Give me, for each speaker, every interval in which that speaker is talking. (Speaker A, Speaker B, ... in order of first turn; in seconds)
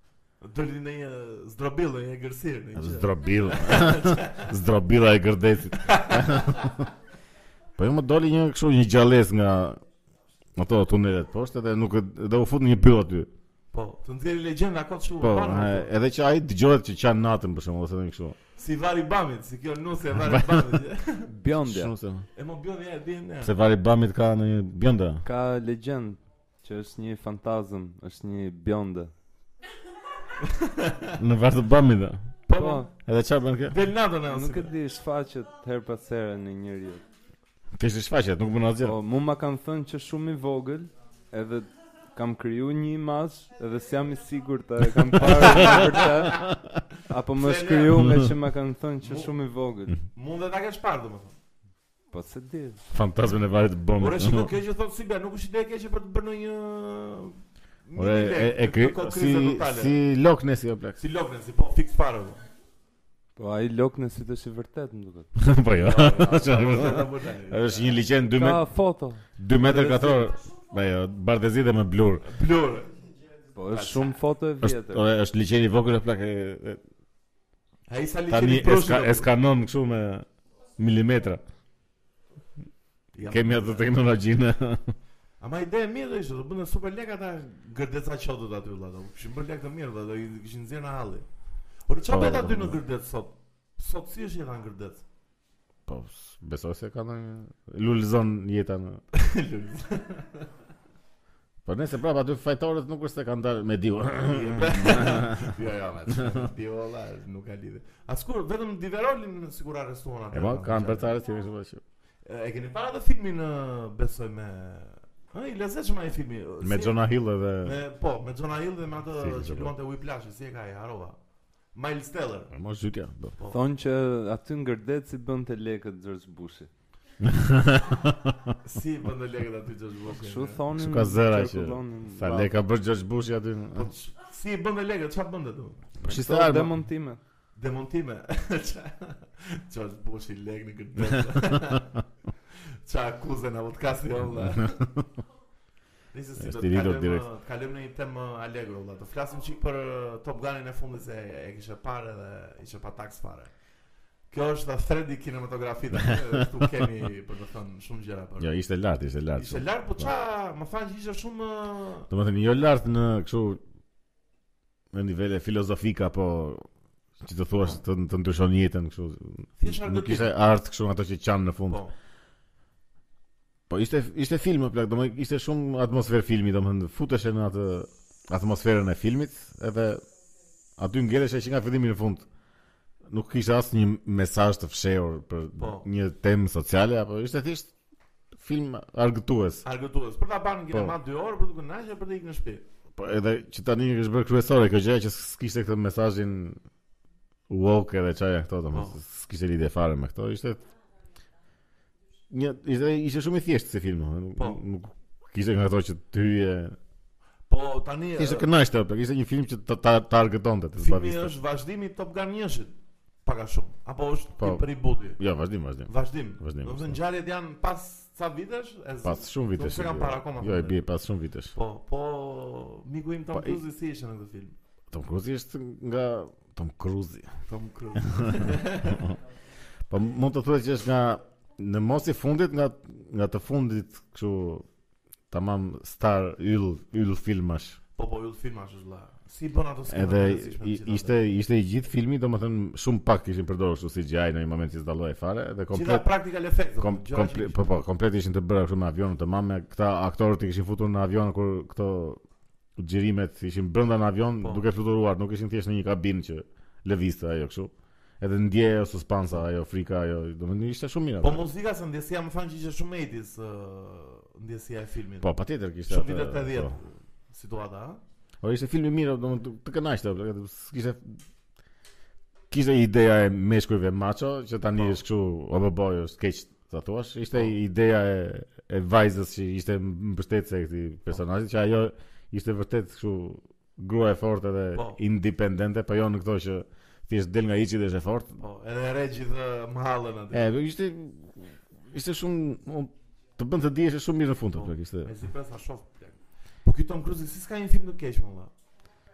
Speaker A: 0.4-4.5, 5.8-6.7, 13.7-15.9, 18.6-21.3, 22.3-23.5, 30.4-31.1, 32.5-32.9, 33.7-34.7, 45.2-46.4, 47.3-48.2, 49.0-49.3, 50.1-51.4, 54.0-59.9, 61.0-62.4, 65.8-68.0, 69.5-70.4, 72.2-72.9, 73.7-74.1, 77.9-79.3, 83.1-83.9, 85.4-91.2, 91.9-95.0, 99.1-100.5, 104.2-111.2, 112.2-117.0, 117.6-121.2, 121.7-122.5, 128.6-130.6, 133.7-135.9, 137.5-142.0, 142.8-144.8, 146.1-153.5, 154.3-158.5, 159.3-162.1, 169.6-170.3, 185.6-185.8, 189.6-192.6, 198.7-198.9, 207.5-208.5, 210.8-212.7, 213.2-215.2, 215.9-220.8, 221.5-224.5, 227.5-229.1, 237.9-241.1, 245.7-247.7, 261.2-265.3, 265.9-268.0, 274.8-275.0, 284.7-285.0, 288.4-290.5, 294.5-298.5
Speaker B: 2.8-6.7, 7.8-9.8, 10.6-13.3, 15.2-18.4, 20.2-20.8, 21.6-22.2, 23.4-25.2, 31.2-32.2, 33.0-33.8, 37.8-39.0, 45.4-45.8, 52.9-54.5, 58.0-61.0, 65.3-68.6, 69.4-72.2, 74.6-76.8, 78.3-80.2, 80.8-81.4, 83.2-84.9, 92.1-92.8, 95.9-99.0, 101.6-105.5, 110.3-111.8, 116.6-117.8, 119.2-119.7, 122.5-123.3, 127.2-128.5, 130.8-133.9, 136.0-136.7, 144.4-144.8, 146.4-147.2, 158.4-160.1, 162.1-163.6, 164.9-166.6, 167.2-171.8, 173.7-180.0, 180.8-182.2, 183.1-187.7, 188.4-189.6, 192.9-196.6, 197.5-200.6, 202.3-206.8, 208.2-211.3, 214.4-214.7, 215.2-217.0, 219.0-221.5, 223.3-223.6, 224.9-227.3, 228.1-229.2, 229.9-234.6, 235.3-237.8, 239.9-246.1, 246.8-252.2, 252.8-261.4, 265.2-266.7, 268.4-271.2, 272.5-288.4, 290.3-295.1
Speaker C: 21.2-21.9, 25.2-29.1, 32.5-32.9, 34.3-37.0, 38.8-46.5, 47.0-50.0, 52.1-52.8, 63.4-65.3, 68.3-69.2, 73.5-75.0, 123.5-126.7, 130.1-132.5, 136.0-137.2